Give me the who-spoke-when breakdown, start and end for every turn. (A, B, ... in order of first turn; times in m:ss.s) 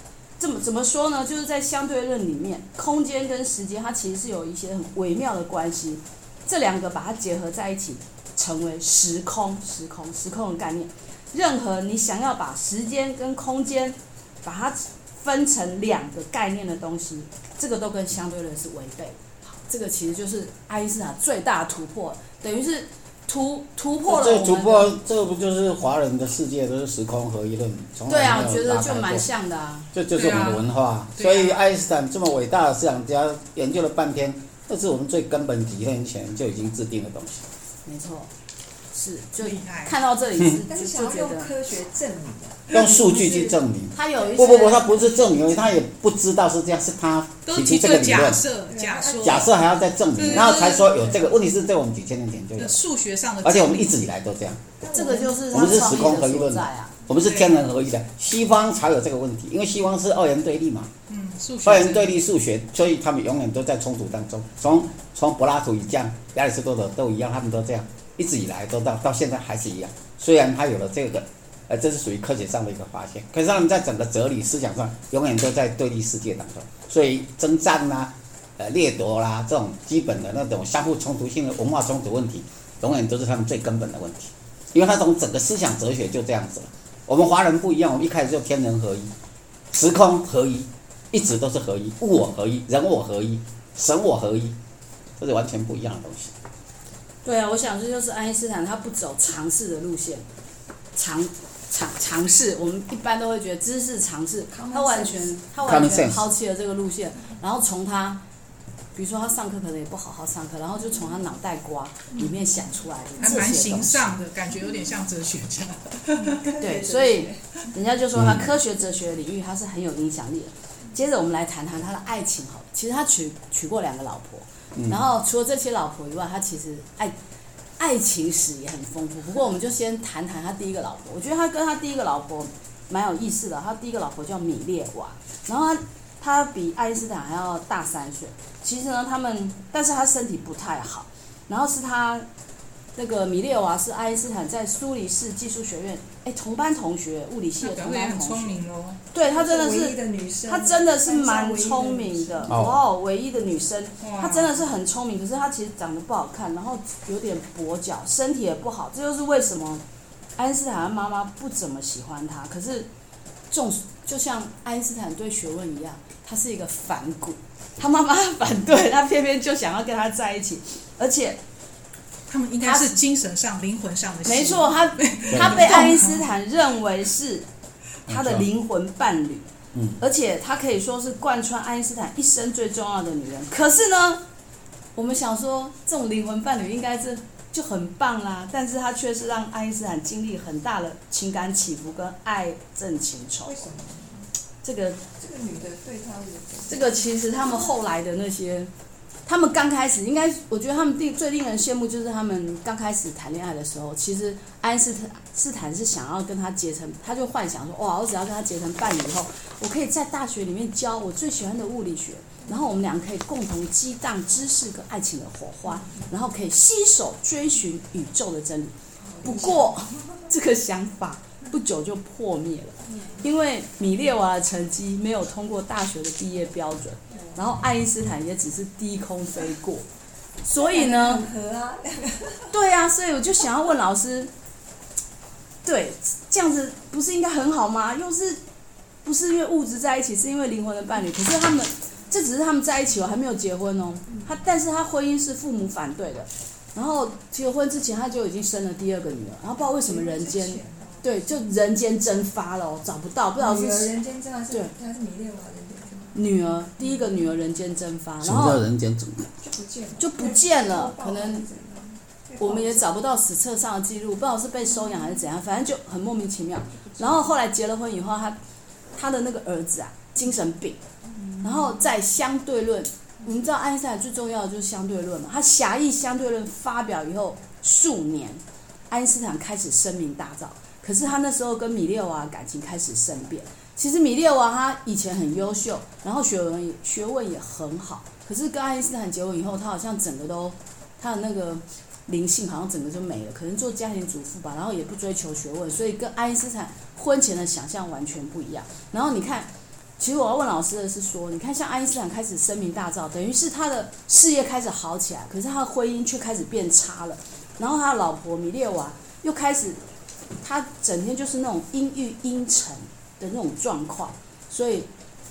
0:00.4-0:24.9 A
0:24.0-0:29.2 B
0:28.1-0:29.9 A
0:29.9-0:37.4 B
0:30.1-0:30.6 C
0:31.2-0:31.6 C
0:37.8-0:38.3 A
0:38.9-0:41.5 A
0:39.4-0:39.9 C
0:40.7-0:43.5 D
0:42.7-0:48.4 B
0:43.9-0:45.4 A
0:47.4-0:49.5 C
0:48.7-0:49.5 D
0:49.2-0:52.8 B
0:50.1-0:51.1 C
0:52.6-0:53.9 C
0:53.4-0:54.6 B
0:54.8-0:55.7 D
0:54.9-0:56.9 A
0:55.5-1:00.9 B
0:57.1-0:57.6 C
1:01.1-1:02.2 C
1:01.6-1:29.1 B
1:29.7-1:34.6 B
1:35.2-1:36.3 B
1:37.2-1:40.2 A
1:40.9-1:48.2 A
1:44.5-1:45.3 D
1:45.6-1:46.2 B
1:48.9-1:54.2 A
1:53.2-1:56.5 C
1:56.2-1:57.4 D
1:56.6-2:07.1 A
1:58.1-1:58.5 B
2:04.7-2:05.0 B
2:07.8-2:22.3 A
2:23.0-2:28.6 A
2:27.6-2:29.0 C
2:29.1-2:39.8 A
2:29.3-2:32.6 D
2:32.5-2:32.8 B
2:34.0-2:34.6 C
2:40.4-2:42.9 A
2:43.5-2:51.4 A
2:52.3-2:56.2 C
2:52.6-2:53.0 A
2:54.2-2:57.5 A
2:55.3-2:55.7 B
2:58.1-2:58.5 B
2:58.1-2:59.4 A
3:00.0-3:04.2 A
3:04.9-3:13.7 A
3:13.4-3:14.3 D
3:14.6-3:15.0 A
3:15.2-3:17.0 D
3:16.7-3:18.7 A
3:19.2-3:49.8 A
3:35.8-3:36.0 D
3:39.0-3:39.8 D
3:42.9-3:43.2 D
3:47.1-3:47.4 D
3:50.4-3:51.2 A
3:50.6-3:52.5 D
3:52.5-3:54.3 A
3:55.6-3:58.4 A
3:59.0-4:13.9 A
4:09.8-4:11.0 D
4:13.4-4:16.2 D
4:16.1-4:18.6 A
4:18.2-4:19.3 B
4:19.4-4:22.9 D
4:20.0-4:21.4 A
4:22.4-4:28.4 A
4:28.9-4:30.8 A
4:31.2-4:31.4 D
4:31.4-5:09.8 A
5:10.4-5:14.9 A